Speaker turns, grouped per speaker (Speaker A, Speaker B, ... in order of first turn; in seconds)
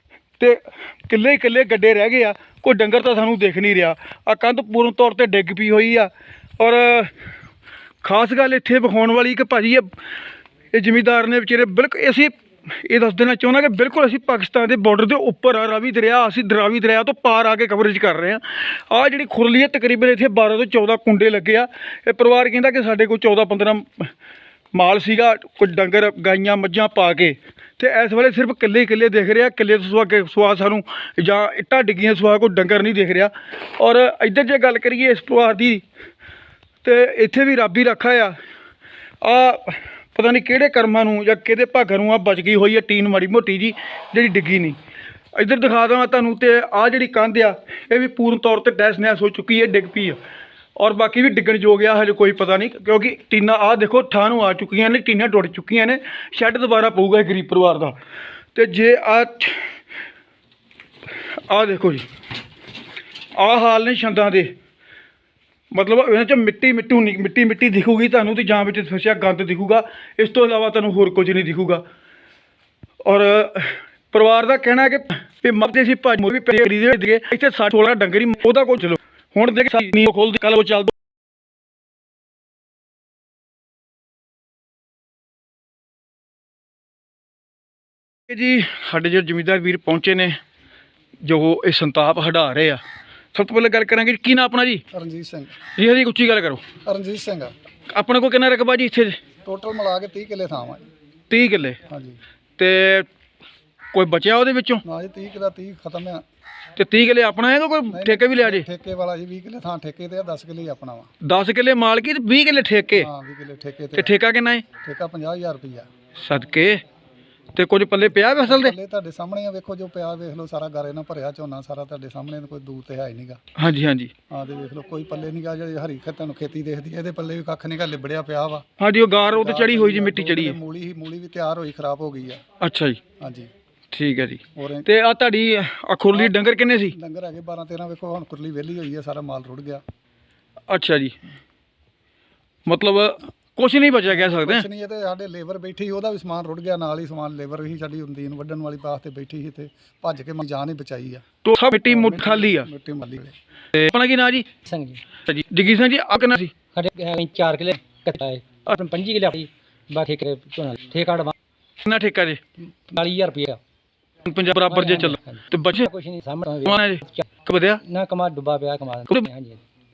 Speaker A: 0.4-7.1, 8.0-9.9, 10.7-24.1, 24.7-35.8, 36.8-38.3, 39.2-44.8, 45.4-50.2, 50.8-58.0, 58.5-59.7, 61.3-62.0, 63.3-64.5, 65.7-71.8, 73.0-80.9, 88.3-90.4, 91.2-92.8, 93.3-94.8, 95.8-96.6, 97.9-99.2, 101.3-101.8, 102.6-103.1, 103.9-104.8, 106.8-108.7, 111.2-113.1, 114.0-114.6, 116.2-116.8, 117.5-118.7, 123.5-124.1, 128.8-130.6, 132.6-133.0, 133.9-136.9, 140.7-141.2, 142.7-144.6, 151.4-152.7, 153.7-154.4, 155.2-156.5, 161.8-162.4, 164.2-165.9, 166.6-167.8
Speaker B: 94.9-95.6, 96.8-97.5, 99.4-100.8, 101.9-102.2, 104.8-106.2, 107.9-111.1, 113.0-114.1, 114.8-115.9, 118.2-123.4, 124.3-128.6, 129.3-132.4, 133.2-133.5, 134.5-134.9, 136.9-139.8, 144.1-151.2, 151.8-153.3
Speaker C: 154.6-155.0, 156.7-161.3, 162.9-163.6, 164.7-167.3, 167.8-169.6